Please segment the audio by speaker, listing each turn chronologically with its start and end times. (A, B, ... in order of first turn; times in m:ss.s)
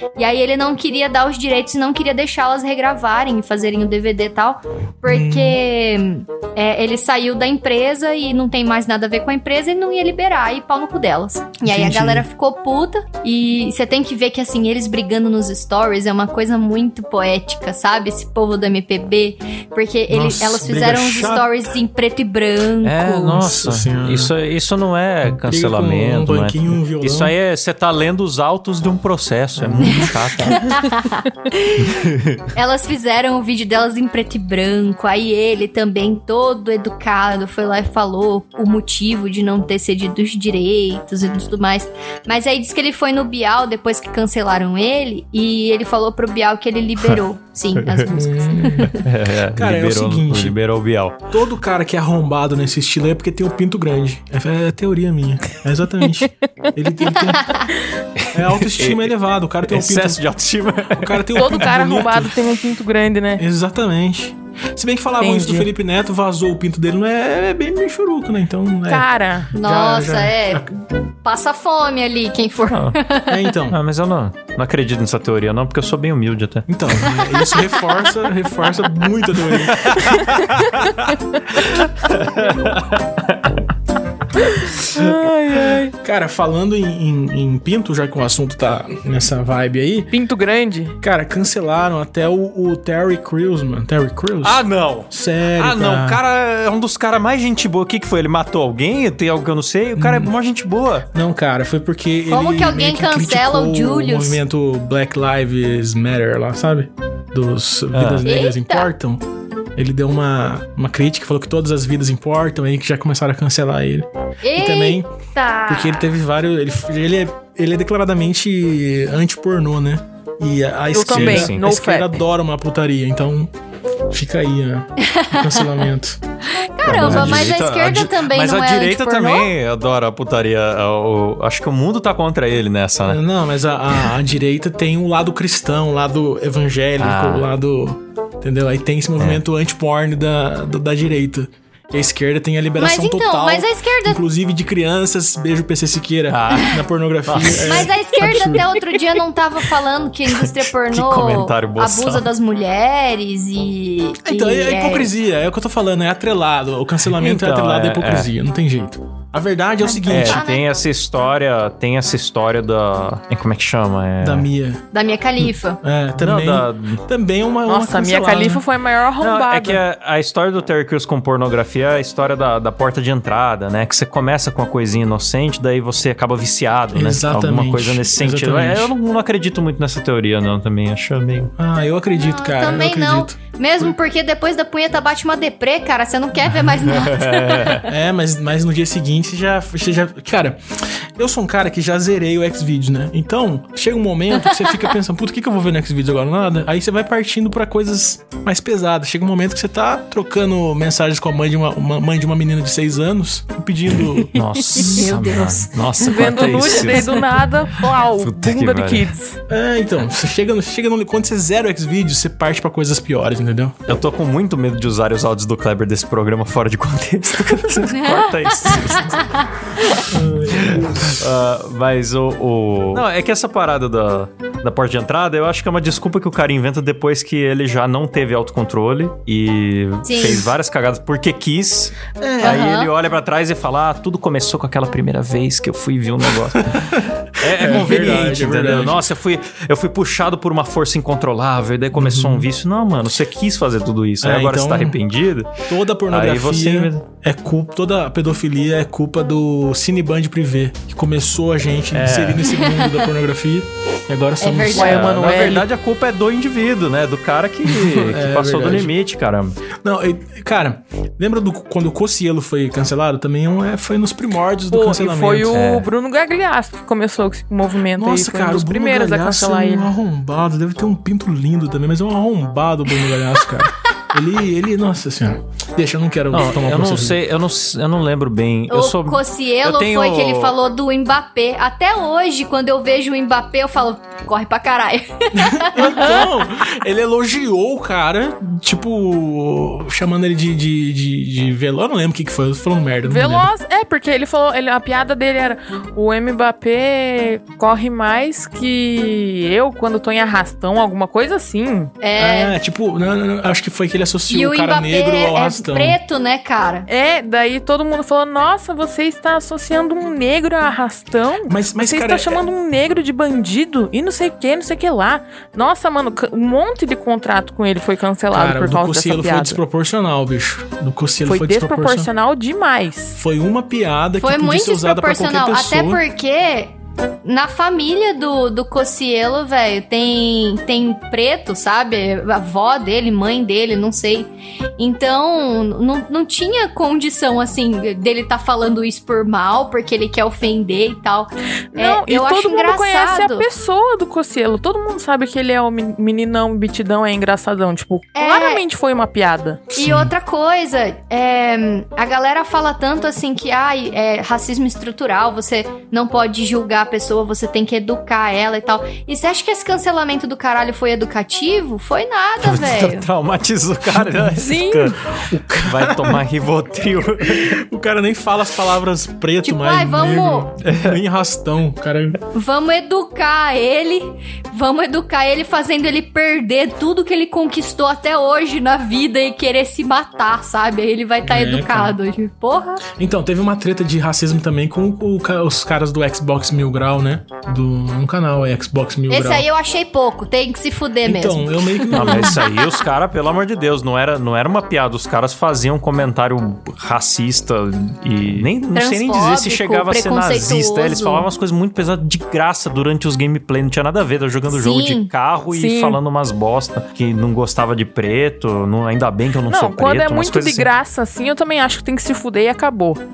0:00.2-0:23.4 A
0:05.0-0:05.6 B
0:11.6-0:12.3 B
0:20.1-0:21.5 B
0:22.8-0:30.9 C
0:23.4-0:24.3 B
0:25.4-0:27.3 B
0:29.6-0:30.4 B
0:29.8-0:31.9 A
0:31.8-0:32.4 C
0:32.5-0:49.0 A
0:47.8-0:48.1 C
0:48.1-0:49.0 B
0:48.8-0:51.2 C
0:49.6-0:50.6 B
0:51.3-0:57.7 B
0:58.3-1:00.2 B
0:58.7-0:59.1 C
0:59.7-1:01.7 C
1:01.0-1:02.4 B
1:01.3-1:03.4 D
1:03.4-1:10.6 B
1:05.2-1:05.7 D
1:08.9-1:09.5 D
1:09.5-1:10.7 A
1:11.2-1:13.4 A
1:12.7-1:13.0 C
1:13.3-1:13.8 B
1:13.7-1:16.7 C
1:16.7-1:20.1 B
1:19.6-1:23.6 C
1:24.4-1:25.9 D
1:26.0-1:30.1 B
1:30.1-1:31.0 D
1:31.0-1:36.2 B
1:34.4-1:41.1 C
1:40.0-1:40.3 B
1:41.1-1:49.2 B
1:42.3-1:44.4 A
1:47.9-1:48.3 C
1:48.2-1:48.9 A
1:49.8-1:55.1 B
1:54.4-1:56.1 A
1:55.7-2:03.5 B
2:00.9-2:02.2 D
2:01.0-2:01.6 C
2:04.1-2:06.2 B
2:05.0-2:05.6 A
2:06.5-2:09.5 A
2:06.8-2:13.2 C
2:06.9-2:07.5 B
2:13.1-2:28.7 B
2:17.0-2:17.5 C
2:22.8-2:24.2 A
2:26.3-2:27.9 C
2:27.6-2:35.1 A
2:30.3-2:32.3 C
2:34.2-2:40.4 B
2:37.2-2:38.3 C
2:39.8-2:40.6 A
2:40.1-2:44.5 C
2:44.2-2:44.8 B
2:44.9-2:45.8 A
2:45.8-2:48.6 B
2:46.2-2:47.0 C
2:47.7-2:49.8 D
2:49.2-3:01.5 C
2:56.9-2:58.9 B
3:01.6-3:03.9 B
3:02.2-3:07.9 A
3:06.9-3:07.8 C
3:07.9-3:24.4 B
3:24.3-3:27.4 C
3:24.7-3:26.8 A
3:26.0-3:29.4 D
3:28.0-3:29.1 C
3:29.5-3:33.8 B
3:33.9-3:39.9 C
3:40.1-3:41.2 B
3:40.5-4:05.5 C
3:50.0-3:50.5 A
3:52.2-3:52.7 B
3:52.4-3:52.9 A
3:57.4-3:59.0 B
4:01.9-4:02.5 B
4:04.2-4:05.0 B
4:05.7-4:15.6 B
4:06.1-4:07.0 C
4:11.9-4:12.5 C
4:14.4-4:15.0 A
4:14.7-4:15.7 D
4:14.8-4:19.6 C
4:17.7-4:18.9 B
4:19.8-4:25.6 B
4:24.7-4:29.9 D
4:25.5-4:25.9 C
4:28.0-4:37.2 B
4:36.3-4:40.6 C
4:38.7-4:46.1 A
4:45.3-4:53.5 B
4:53.0-5:01.9 D
5:02.0-5:02.6 A
5:02.2-5:06.0 B
5:04.3-5:06.9 A
5:06.9-5:19.6 D
5:11.5-5:12.4 B
5:18.3-5:22.1 B
5:21.3-5:23.2 D
5:23.2-5:26.0 B
5:24.2-5:26.7 A
5:27.2-5:43.5 A
5:41.7-5:49.6 D
5:48.2-5:48.6 A
5:49.8-5:50.1 B
5:49.8-6:03.1 A
6:02.4-6:07.6 C
6:04.0-6:04.5 B
6:04.4-6:05.0 D
6:05.2-6:06.2 B
6:07.2-6:12.2 B
6:09.4-6:10.5 A
6:10.6-6:11.0 C
6:12.3-6:22.8 A
6:21.2-6:22.0 B
6:22.9-6:29.5 B
6:29.1-6:32.6 A
6:31.0-6:32.4 B
6:31.9-6:50.7 C
6:38.7-6:41.2 A
6:44.5-6:45.1 A
6:45.5-6:46.0 D
6:49.5-6:53.0 D